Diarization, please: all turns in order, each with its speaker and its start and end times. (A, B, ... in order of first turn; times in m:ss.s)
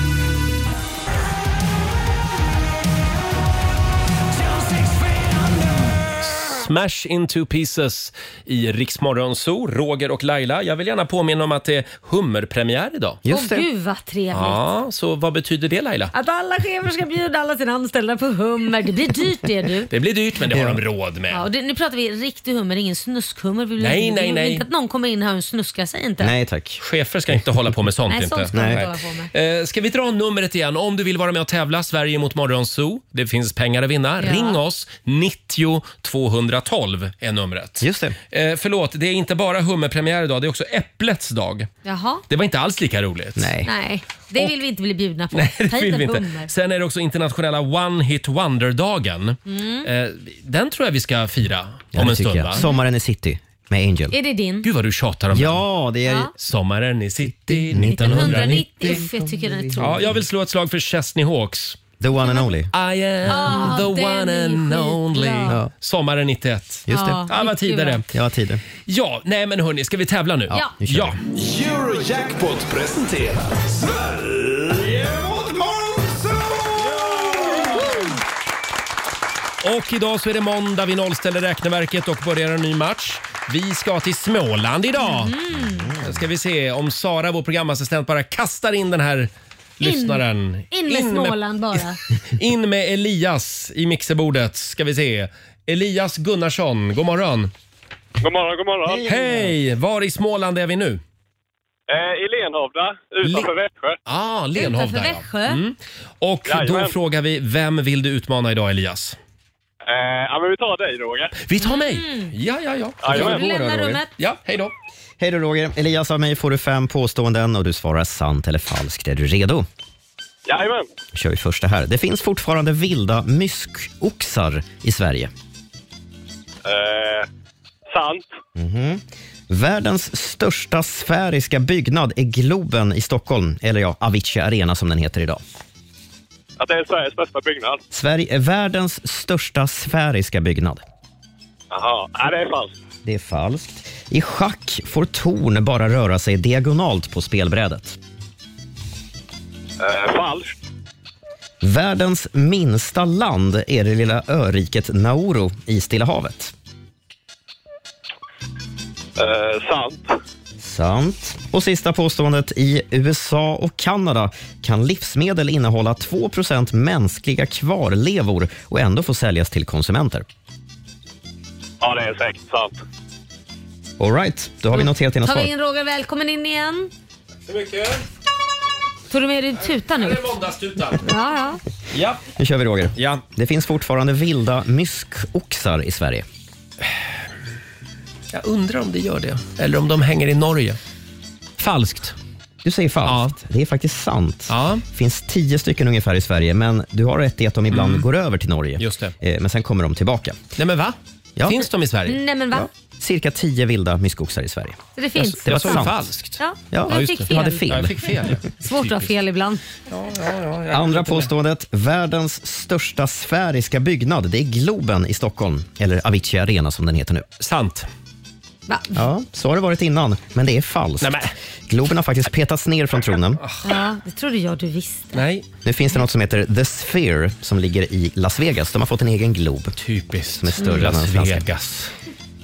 0:06.2-0:13.2 A
0:13.2-0:13.6 B
0:13.3-0:14.6 C
0:14.3-0:16.1 A
0:16.1-0:19.9 C
0:19.9-0:21.4 A
0:20.5-0:20.8 B
0:21.3-0:26.3 C
0:23.8-0:24.6 A
0:26.2-0:26.8 B
0:26.8-0:41.7 A
0:28.1-0:29.3 C
0:28.5-0:28.9 B
0:34.2-0:34.6 C
0:37.8-0:38.2 B
0:41.8-0:42.2 C
0:42.3-0:43.5 A
0:43.4-0:43.7 B
0:43.6-0:46.5 C
0:45.3-0:52.6 A
0:49.5-0:49.9 C
0:51.9-0:54.1 B
0:54.1-0:54.7 C
0:54.6-0:55.6 A
0:55.3-0:56.3 B
0:56.4-0:59.0 A
0:57.5-1:00.0 B
0:57.8-1:00.0 C
0:59.8-1:01.8 A
1:02.0-1:02.7 B
1:02.7-1:08.0 A
1:03.3-1:05.5 C
1:06.9-1:07.3 B
1:06.9-1:08.0 C
1:08.1-1:08.6 B
1:08.9-1:11.2 A
1:10.5-1:11.2 B
1:11.3-1:18.1 D
1:19.6-1:25.4 A
1:25.0-1:26.0 C
1:25.7-1:26.1 B
1:26.0-1:37.5 A
1:29.8-1:32.0 C
1:38.2-1:39.0 E
1:38.8-1:39.5 B
1:39.0-1:41.0 A
1:41.9-1:44.0 E
1:43.2-1:43.5 A
1:44.0-1:49.2 A
1:44.5-1:45.6 C
1:46.5-1:46.9 E
1:49.8-1:51.3 E
1:51.4-1:53.4 A
1:51.6-1:52.3 C
1:53.0-1:53.4 E
1:53.0-1:54.1 C
1:53.1-1:54.0 B
1:54.2-1:54.7 A
1:55.2-1:59.7 B
2:00.5-2:00.9 E
2:01.1-2:05.3 B
2:06.6-2:07.3 E
2:07.9-2:08.4 E
2:08.6-2:15.4 B
2:16.6-2:17.8 E
2:17.9-2:20.8 B
2:21.7-2:22.7 E
2:23.0-2:28.0 B
2:29.8-2:30.5 E
2:31.6-2:36.5 B
2:39.2-2:40.1 E
2:40.6-2:50.2 B
2:51.8-2:52.8 E
2:54.0-2:55.5 B
2:54.7-2:56.9 C
2:57.4-2:58.0 A
2:59.1-3:00.3 C
2:59.9-3:01.1 A
3:01.0-3:01.6 C
3:01.9-3:02.2 A
3:02.4-3:06.2 B
3:03.0-3:03.2 A
3:08.3-3:10.8 A
3:11.6-3:12.1 A
3:12.6-3:20.4 B
3:13.0-3:13.3 A
3:14.5-3:14.8 A
3:17.7-3:18.0 A
3:18.8-3:19.1 A
3:20.6-3:22.2 A
3:21.4-3:21.6 B
3:22.1-3:22.7 C
3:22.5-3:24.8 B
3:25.0-3:27.7 C
3:25.2-3:29.1 A
3:25.4-3:26.1 B
3:26.7-3:28.3 B
3:28.6-3:29.6 C
3:29.9-3:31.3 A
3:30.7-3:37.2 B
3:37.4-3:37.9 A
3:38.7-3:39.0 C
3:38.9-3:43.4 B
3:41.0-3:41.3 A
3:43.6-3:45.2 C
3:45.1-3:45.4 A
3:45.6-3:49.7 B
3:49.8-3:51.9 A
3:50.4-3:51.5 B